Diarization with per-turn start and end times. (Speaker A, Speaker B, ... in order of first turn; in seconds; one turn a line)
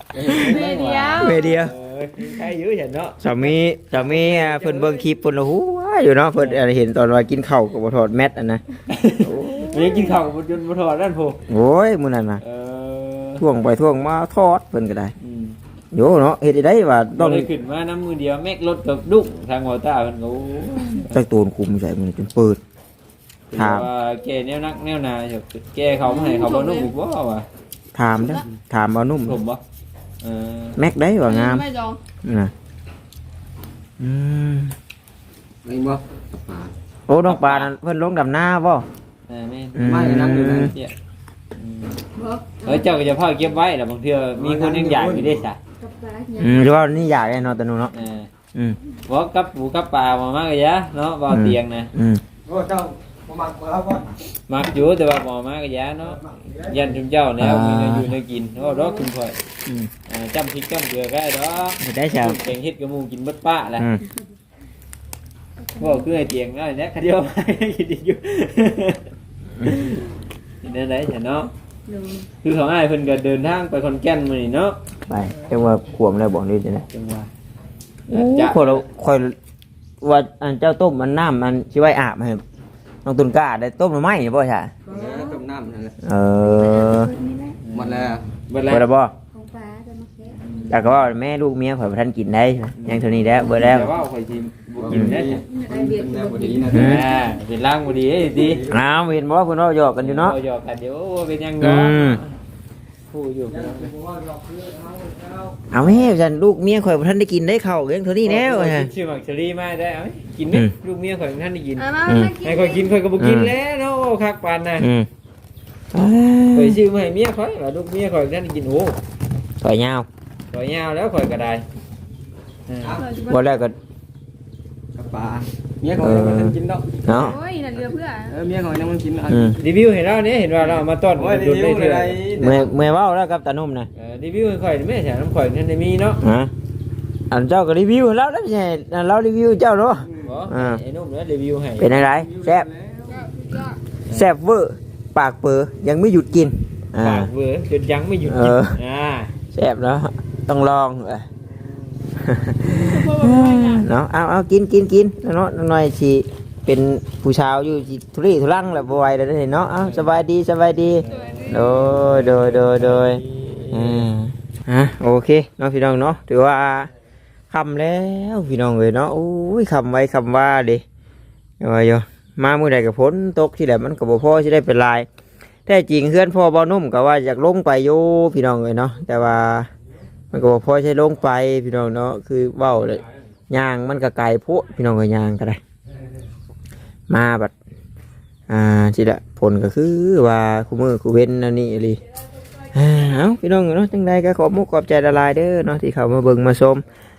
Speaker A: 0.1-1.4
Speaker B: 0.3-1.6
Speaker C: 1.2-1.7
Speaker D: 1.5-5.1
Speaker C: 3.2-8.6
Speaker D: 8.9-11.4
Speaker C: 9.2-10.1
Speaker C: 11.5-12.4
Speaker D: 12.4-13.4
Speaker C: 13.4-15.1
Speaker D: 15.2-15.6
Speaker C: 15.9-17.5
Speaker D: 17.1-21.1
Speaker C: 21.1-22.6
Speaker D: 23.5-27.4
Speaker C: 23.6-23.9
Speaker B: 26.0-26.9
Speaker C: 27.9-29.4
Speaker B: 28.2-28.4
Speaker D: 29.2-29.6
Speaker D: 30.2-30.8
Speaker C: 30.8-31.7
Speaker B: 31.3-32.0
Speaker C: 32.2-32.5
Speaker C: 34.0-34.7
Speaker A: 35.6-36.7
Speaker C: 37.1-38.9
Speaker D: 37.2-37.7
Speaker D: 39.3-39.8
Speaker C: 39.8-40.7
Speaker A: 39.8-40.9
Speaker D: 41.5-42.0
Speaker B: 42.1-43.2
Speaker D: 42.6-45.6
Speaker A: 44.4-45.5
Speaker B: 45.8-46.7
Speaker C: 46.4-47.9
Speaker D: 47.9-48.3
Speaker D: 49.0-51.9
Speaker C: 51.3-52.2
Speaker A: 52.4-54.2
Speaker D: 54.5-59.4
Speaker A: 56.1-56.9
Speaker C: 57.4-58.1
Speaker C: 59.6-59.9
Speaker D: 60.0-63.9
Speaker C: 61.8-62.4
Speaker B: 65.6-66.1
Speaker D: 65.8-69.0
Speaker D: 69.6-70.0
Speaker D: 70.6-71.5
Speaker B: 71.8-72.3
Speaker D: 72.4-74.8
Speaker C: 75.1-76.9
Speaker D: 76.9-77.3
Speaker D: 78.1-78.8
Speaker C: 78.1-79.3
Speaker C: 80.0-82.4
Speaker C: 83.0-84.7
Speaker B: 84.8-85.4
Speaker A: 84.8-86.0
Speaker C: 86.0-87.1
Speaker B: 86.4-87.6
Speaker D: 87.6-88.8
Speaker A: 87.7-88.3
Speaker C: 88.6-89.1
Speaker B: 89.3-90.7
Speaker D: 90.4-90.9
Speaker C: 90.7-93.9
Speaker D: 92.8-95.4
Speaker A: 94.8-97.1
Speaker B: 94.9-97.4
Speaker D: 96.6-98.6
Speaker C: 96.7-97.0
Speaker A: 98.3-98.9
Speaker C: 98.7-100.3
Speaker D: 100.0-102.3
Speaker C: 101.6-102.2
Speaker D: 103.1-103.9
Speaker A: 103.5-105.6
Speaker C: 105.7-108.9
Speaker D: 108.2-114.8
Speaker B: 111.8-113.0
Speaker C: 112.0-112.3
Speaker C: 113.2-113.5
Speaker C: 114.8-115.1
Speaker C: 115.9-116.8
Speaker D: 116.5-119.0
Speaker C: 119.6-120.1
Speaker D: 120.5-121.6
Speaker D: 122.7-123.0
Speaker A: 122.8-123.1
Speaker B: 123.0-123.4
Speaker C: 123.3-123.8
Speaker A: 124.9-127.0
Speaker C: 126.0-127.4
Speaker B: 127.1-128.3
Speaker A: 128.3-129.6
Speaker C: 129.3-129.6
Speaker D: 129.6-132.2
Speaker A: 131.1-132.7
Speaker C: 132.3-133.9
Speaker D: 133.9-136.2
Speaker C: 136.2-136.5
Speaker C: 137.3-140.8
Speaker A: 140.0-140.4
Speaker D: 140.2-142.0
Speaker C: 141.8-142.7
Speaker A: 141.9-143.3
Speaker B: 143.1-143.8
Speaker C: 144.1-147.3
Speaker D: 147.0-149.3
Speaker C: 148.2-148.8
Speaker C: 149.5-151.3
Speaker C: 152.2-166.9
Speaker B: 152.9-153.8
Speaker D: 161.0-164.0
Speaker B: 161.1-161.8
Speaker C: 167.5-170.8
Speaker C: 171.6-175.1
Speaker C: 175.7-179.7
Speaker C: 180.3-185.6
Speaker C: 187.1-187.5
Speaker C: 188.5-192.0
Speaker C: 192.7-196.8